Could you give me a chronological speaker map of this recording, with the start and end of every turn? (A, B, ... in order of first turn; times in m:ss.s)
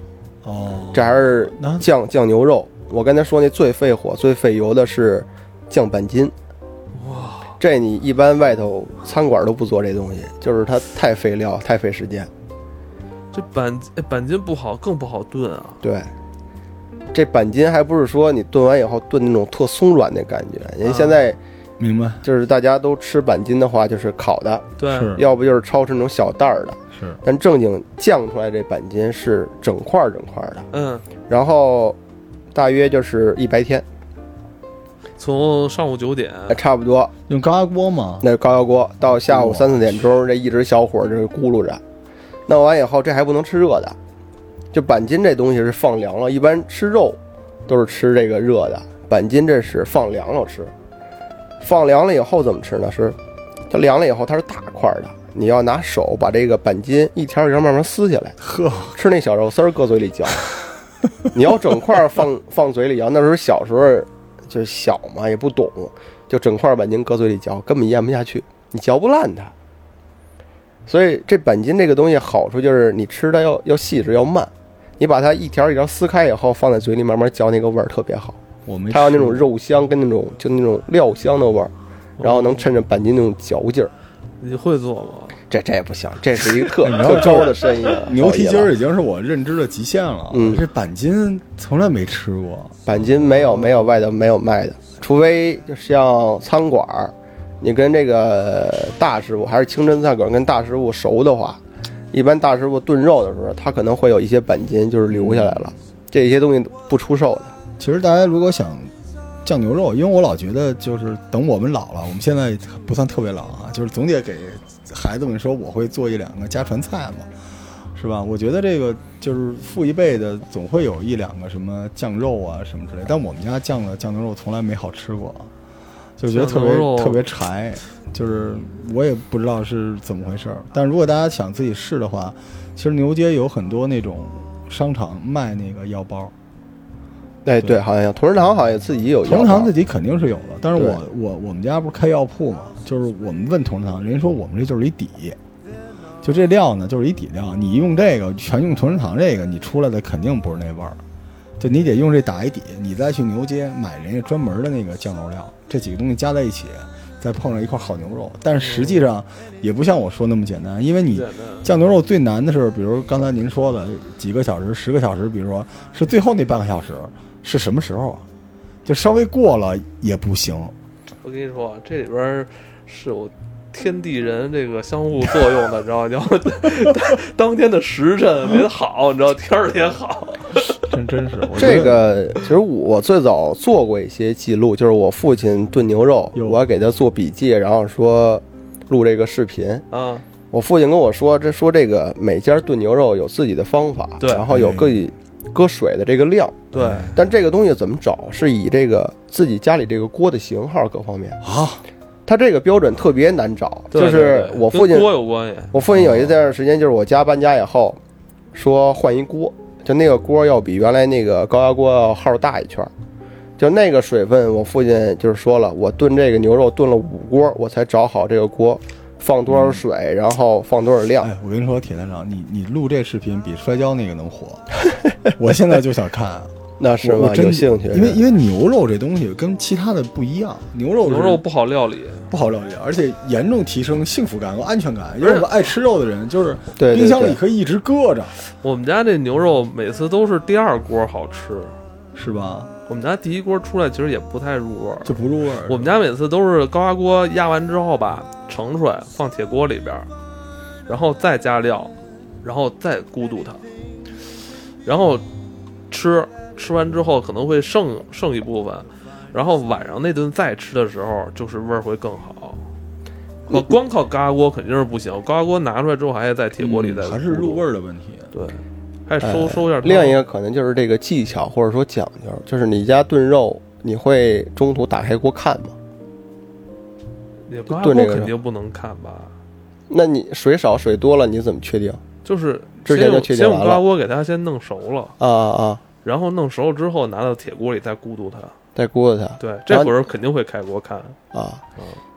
0:00.4-0:01.9 A
0:00.9-0:06.3 B
0:06.9-0:07.5 C
0:07.6-0:12.3 B
0:13.3-0:15.8 C
0:15.8-0:16.1 B
0:17.1-0:21.4 B
0:20.8-0:21.2 C
0:21.8-0:22.2 A
0:22.2-0:30.7 B
0:24.8-0:25.2 C
0:24.9-0:25.2 A
0:26.9-0:27.2 A
0:30.7-0:31.0 C
0:31.3-0:32.0 B
0:32.5-0:33.8 B
0:35.2-0:36.6 C
0:36.5-0:37.1 B
0:37.3-0:38.2 A
0:38.2-0:41.8 B
0:39.2-0:40.1 A
0:42.5-0:44.0 B
0:44.7-0:50.7 B
0:51.6-0:53.2 B
0:53.7-0:58.4 B
0:58.4-0:59.0 A
0:58.9-1:00.4 B
1:01.3-1:09.5 B
1:10.9-1:18.4 B
1:18.6-1:19.4 A
1:18.9-1:23.9 B
1:22.2-1:22.6 C
1:24.4-1:25.4 C
1:25.5-1:28.7 B
1:26.8-1:32.8 A
1:30.3-1:30.6 B
1:32.8-1:41.6 B
1:33.3-1:33.9 C
1:42.1-1:47.5 B
1:45.1-1:45.7 A
1:47.8-1:48.9 A
1:49.4-1:57.3 A
1:57.9-2:05.5 A
2:06.2-2:16.3 A
2:06.3-2:07.2 C
2:17.4-2:19.7 B
2:19.2-2:25.4 A
2:20.7-2:21.0 B
2:26.2-2:31.0 A
2:31.6-2:48.3 A
2:38.6-2:39.1 C
2:41.1-2:41.7 C
2:48.8-2:50.7 A
2:51.2-3:00.9 C
3:00.9-3:02.1 A
3:01.6-3:09.8 B
3:06.3-3:06.6 A
3:09.9-3:10.2 C
3:10.5-3:21.4 B
3:14.2-3:14.4 C
3:14.5-3:15.0 A
3:16.7-3:17.2 C
3:16.8-3:17.1 A
3:21.4-3:21.8 A
3:22.2-3:25.1 B
3:23.9-3:25.7 C
3:25.7-3:28.0 B
3:25.9-3:26.3 A
3:28.5-3:32.9 B
3:33.6-3:41.3 B
3:39.5-3:39.8 A
3:41.2-3:44.7 A
3:45.4-3:46.5 A
3:46.8-3:48.2 B
3:47.0-3:51.4 A
3:51.0-3:52.3 C
3:52.3-3:58.4 A
3:55.2-3:55.5 C
3:56.8-3:57.4 B
3:58.5-4:01.7 C
4:02.1-4:02.7 A
4:02.9-4:05.1 C
4:05.0-4:05.9 A
4:05.7-4:10.1 C
4:10.9-4:13.6 C
4:14.8-4:15.2 C
4:15.9-4:22.6 C
4:23.5-4:27.6 C
4:26.6-4:28.3 A
4:28.3-4:30.2 C
4:29.2-4:35.7 B
4:37.5-4:39.3 C
4:37.7-4:38.3 B
4:39.9-4:42.0 B
4:42.2-4:45.1 C
4:42.8-4:43.8 B
4:45.2-4:45.8 B
4:46.0-4:48.5 C
4:48.7-4:49.9 B
4:49.4-4:51.2 C
4:51.3-4:51.6 B